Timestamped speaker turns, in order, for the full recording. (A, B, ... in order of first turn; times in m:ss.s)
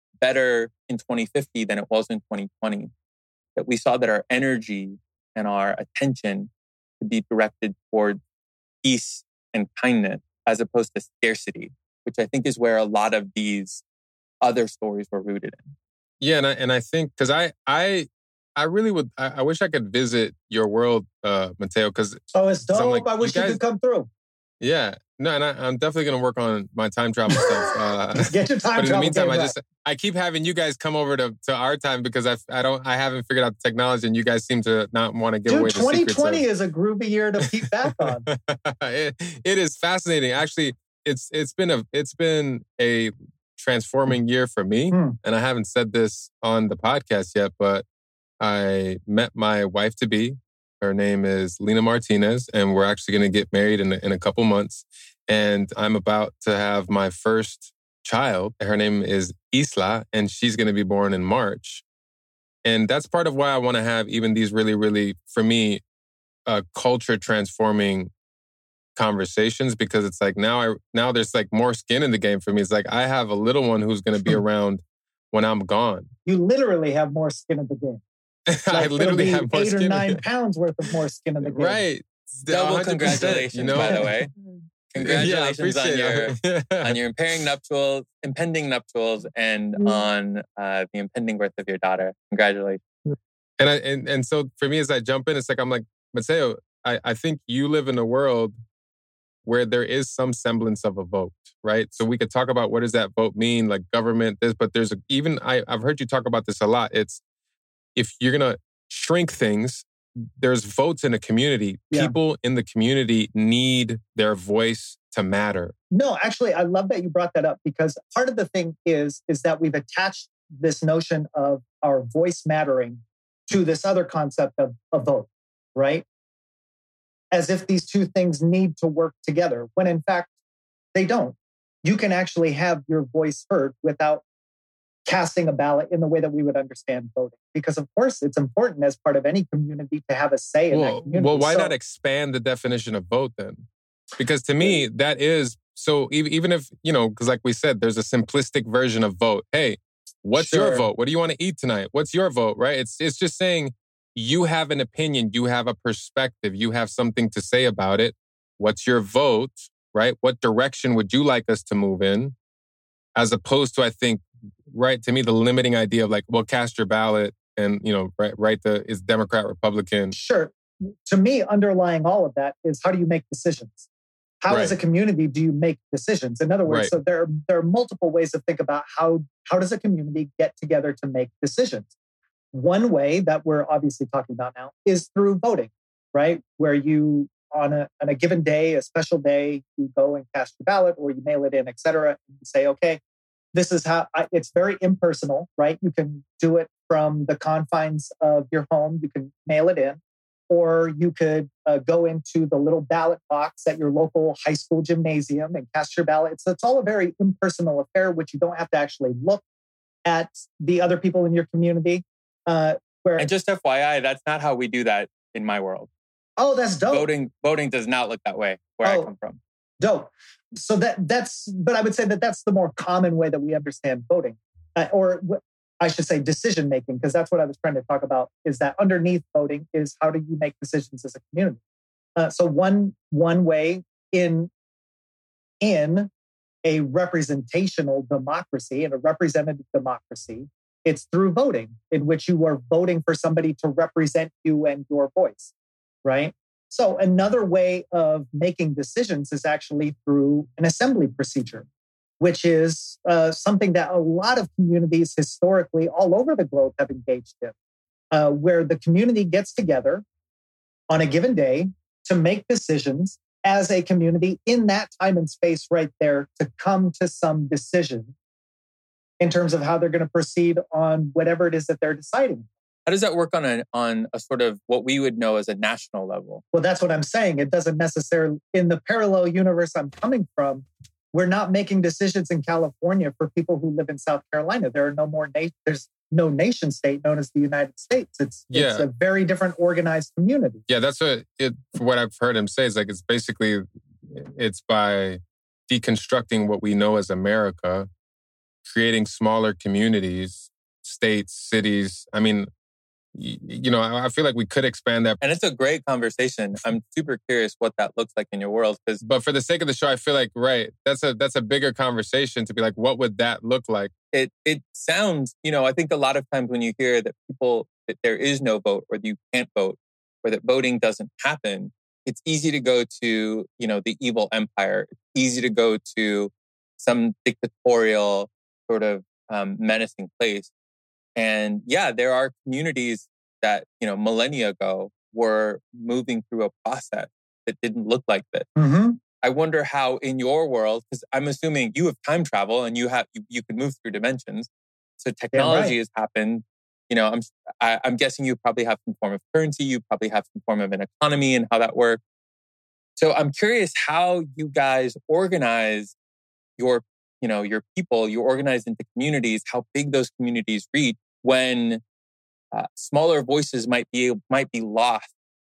0:00.2-0:02.9 A
0:03.6-0:06.5 A
0:07.0-0:08.2 A
0:08.8-0:13.8 A
0:14.4-0:15.7 A
0:16.2-0:23.6 B
0:22.3-0:24.1 C
0:24.6-0:36.4 B
0:28.1-0:29.5 C
0:35.5-0:38.2 C
0:38.0-0:47.8 B
0:44.9-0:45.2 C
0:48.4-1:01.8 B
1:02.6-1:05.8 B
1:06.5-1:08.1 B
1:09.0-1:16.1 B
1:16.2-1:18.0 C
1:18.5-1:20.2 B
1:18.7-1:21.8 C
1:21.4-1:24.1 B
1:22.5-1:24.3 A
1:23.8-1:24.1 C
1:24.9-1:32.8 A
1:25.0-1:27.0 B
1:33.6-1:38.6 B
1:39.4-1:47.2 B
1:48.0-1:55.7 B
1:55.9-2:06.0 C
2:07.3-2:10.3 C
2:10.9-2:14.2 C
2:15.1-2:21.7 C
2:20.7-2:23.7 B
2:24.2-2:42.4 B
2:30.4-2:30.9 C
2:43.2-2:50.1 B
2:50.1-2:53.9 C
2:54.4-3:01.9 C
2:54.5-2:54.7 B
2:56.6-2:56.9 B
3:02.5-3:13.0 C
3:13.5-3:29.4 C
3:30.0-3:33.3 C
3:33.2-3:35.9 A
3:36.4-3:37.1 C
3:36.9-3:39.4 A
3:38.8-3:39.1 C
3:39.8-3:51.6 C
3:52.2-3:54.5 C
3:55.6-3:56.1 C
3:56.6-4:05.5 C
4:06.0-4:11.6 C
4:12.2-4:17.5 C
4:18.1-4:20.0 C
4:20.9-4:28.1 C
4:29.2-4:32.5 C
4:32.8-4:36.4 A
4:36.5-4:50.6 C
4:48.5-4:48.8 B
4:50.7-4:57.9 B
4:58.6-5:02.5 B
5:03.1-5:05.2 B
5:05.2-5:09.0 A
5:09.0-5:13.9 B
5:14.1-5:30.5 A
5:31.2-5:38.5 A
5:38.6-5:39.0 C
5:39.2-5:44.5 A
5:45.0-5:52.0 A
5:45.3-5:45.8 C
5:53.0-5:55.9 A
5:56.6-6:01.8 A
6:02.5-6:05.1 A